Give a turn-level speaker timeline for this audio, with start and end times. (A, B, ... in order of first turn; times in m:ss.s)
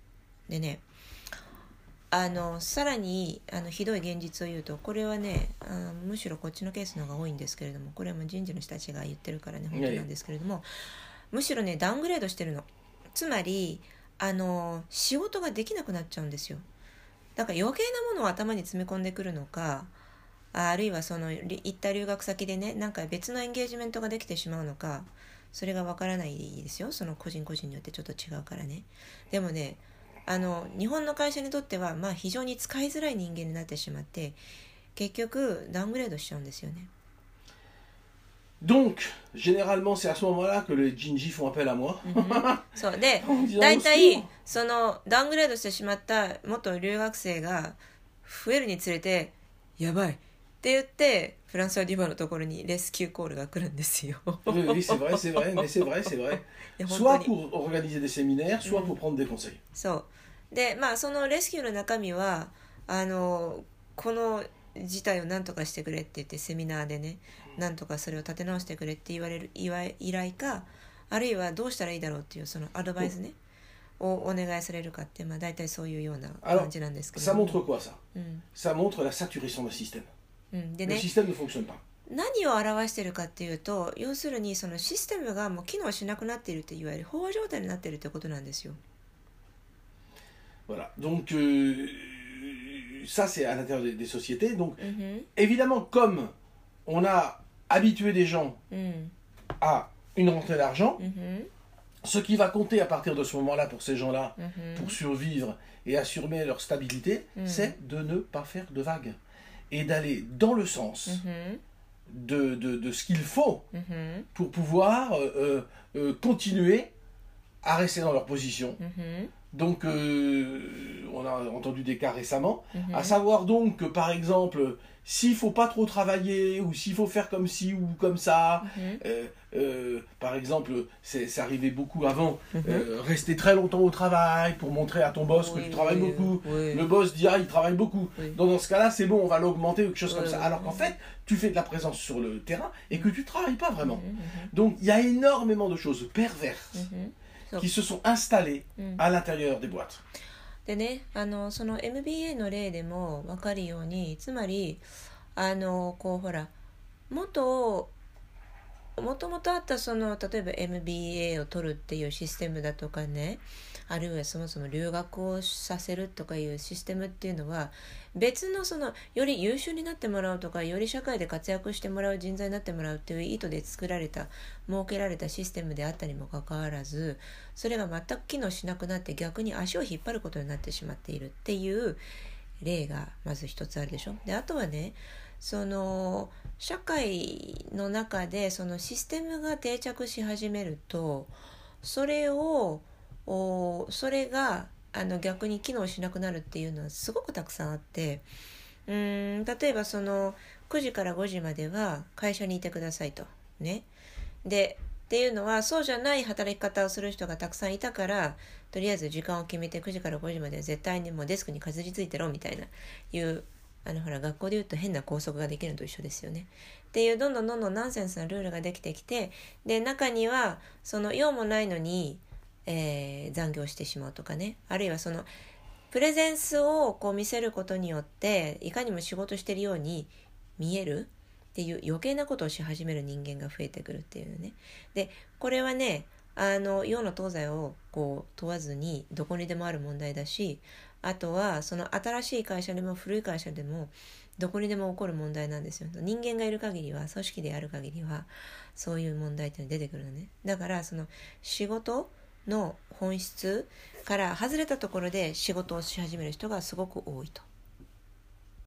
0:00.5-0:00.8 A
0:02.1-0:10.7 A
0:09.7-0:10.1 B
0:11.3-0:16.6 A
0:17.4-0:19.9 A
0:20.5-0:34.4 A
0:34.9-0:36.9 A
0:38.6-0:42.6 B
0:42.0-0:56.1 A
0:43.2-0:44.3 B
0:54.5-0:59.6 B
0:56.8-0:57.3 A
0:58.6-0:59.0 A
0:59.7-1:13.4 A
1:14.0-1:17.6 A
1:16.4-1:18.0 B
1:18.1-1:18.4 A
1:18.5-1:20.1 B
1:20.5-1:21.1 A
1:20.8-1:21.8 B
1:22.1-1:28.8 A
1:30.7-1:34.8 B
1:34.8-1:35.3 A
1:35.4-1:36.3 B
1:36.8-1:38.6 B
1:38.7-1:39.1 A
1:39.6-1:41.0 B
1:41.0-1:41.5 A
1:42.0-1:49.2 B
1:44.4-1:45.0 A
1:47.4-1:47.7 A
1:49.7-1:51.2 B
1:51.1-1:51.6 A
1:52.1-1:53.7 B
1:53.7-1:54.3 A
1:54.3-1:56.9 B
1:57.6-1:58.8 B
1:58.8-1:59.3 A
1:59.5-2:26.9 B
2:02.7-2:03.2 A
2:08.6-2:09.0 A
2:12.5-2:12.9 A
2:15.3-2:16.9 A
2:20.1-2:20.9 A
2:23.8-2:24.5 A
2:26.7-2:27.7 A
2:27.6-2:30.0 B
2:30.6-2:34.8 A
2:35.3-2:36.5 A
2:37.1-2:37.9 A
2:39.0-3:02.0 A
3:02.6-3:18.2 A
3:18.9-3:23.8 A
3:24.4-3:45.3 A
3:45.9-4:17.4 A